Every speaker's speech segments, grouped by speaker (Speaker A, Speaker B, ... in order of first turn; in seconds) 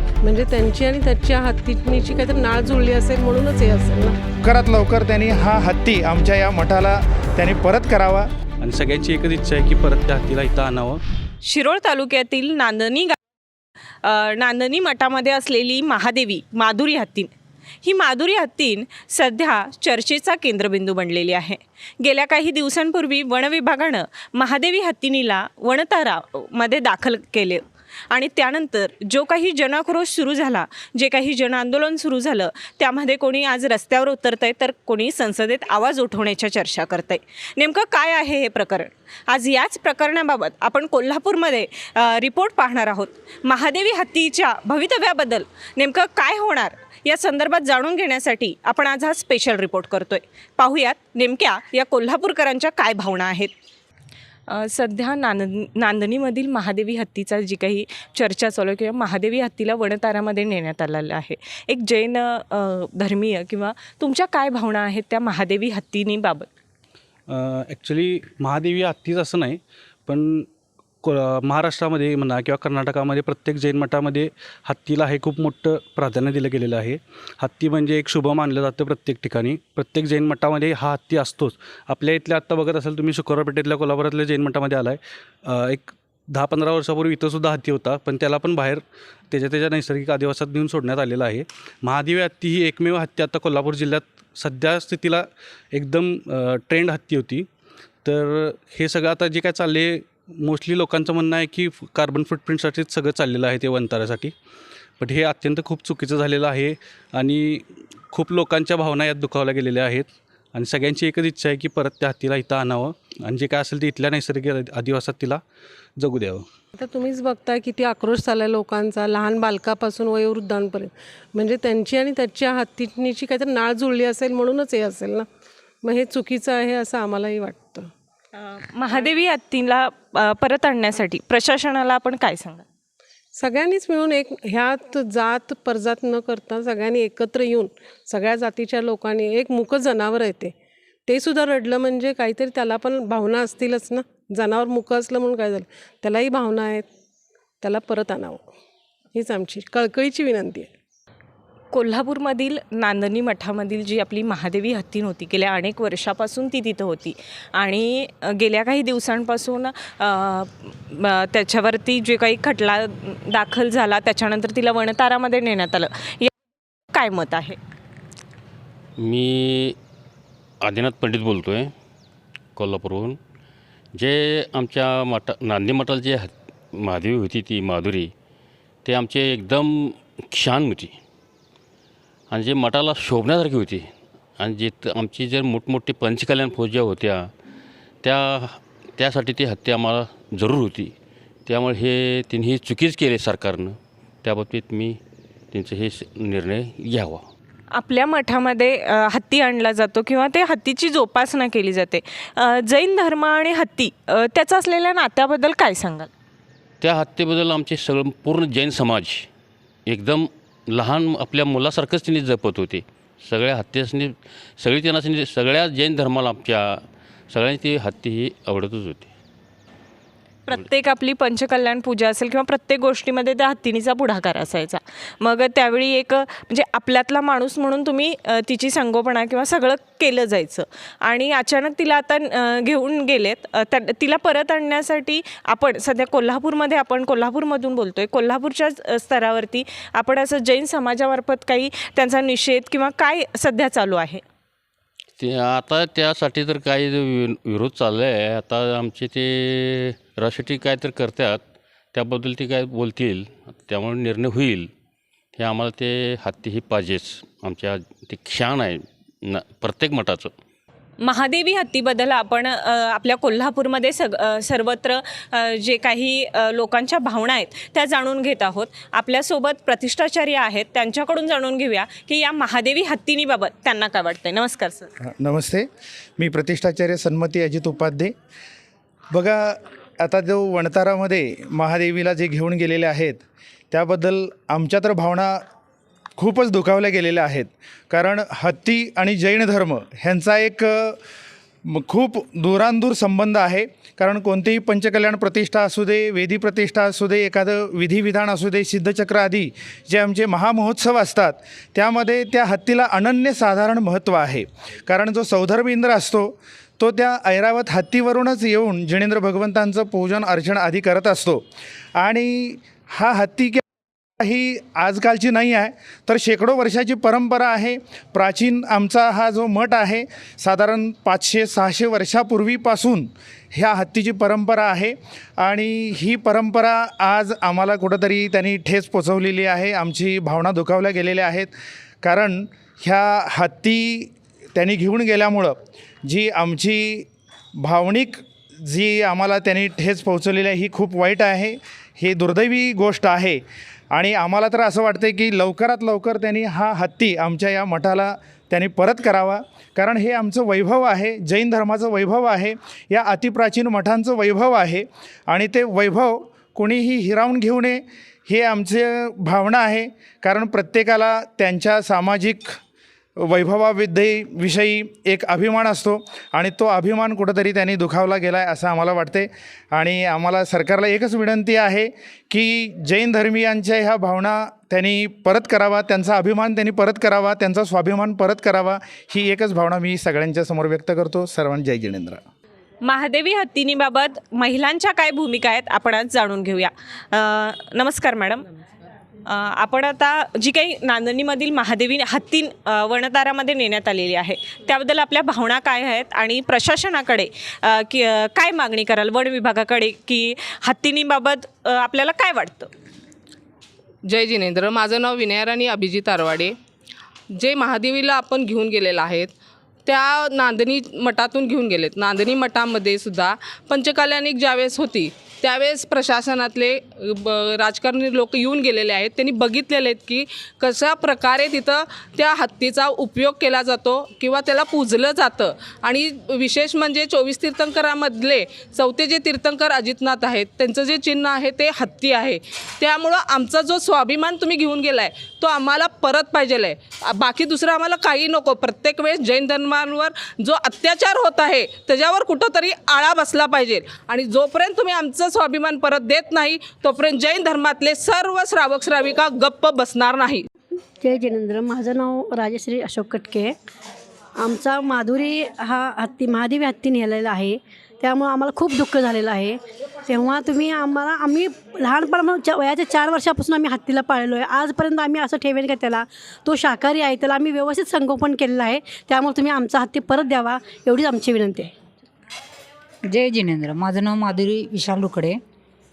Speaker A: 0.2-4.2, 116.8-125.3, 125.8-127.9, 133.4-140.5, 141.1-146.9, 147.6-148.5, 149.1-150.7
Speaker B: 4.4-8.3, 275.0-278.1, 279.1-285.4, 286.2-291.0, 291.6-313.6, 314.2-362.6, 363.2-382.2
Speaker C: 8.6-11.0, 67.3-70.5, 71.0-97.5, 98.0-104.3, 105.0-115.4, 116.0-116.5
Speaker D: 11.4-13.2, 14.0-17.3, 17.8-53.5, 54.5-66.5, 128.3-132.7, 151.7-166.3, 166.9-167.6, 197.7-206.1, 220.5-244.2, 261.0-274.9, 382.8-388.5, 389.3-402.7
Speaker E: 169.0-169.8, 170.6-171.7, 172.6-173.2, 173.9-178.1, 178.8-181.0, 182.3-187.3, 188.0-190.9, 191.5-195.0, 195.5-197.3, 206.8-209.3, 209.9-219.1, 245.2-254.7, 255.4-260.3
Speaker F: 404.1-406.6, 407.4-409.3, 409.9-450.5
Speaker G: 451.0-453.6, 454.4-471.7
Speaker H: 473.1-475.4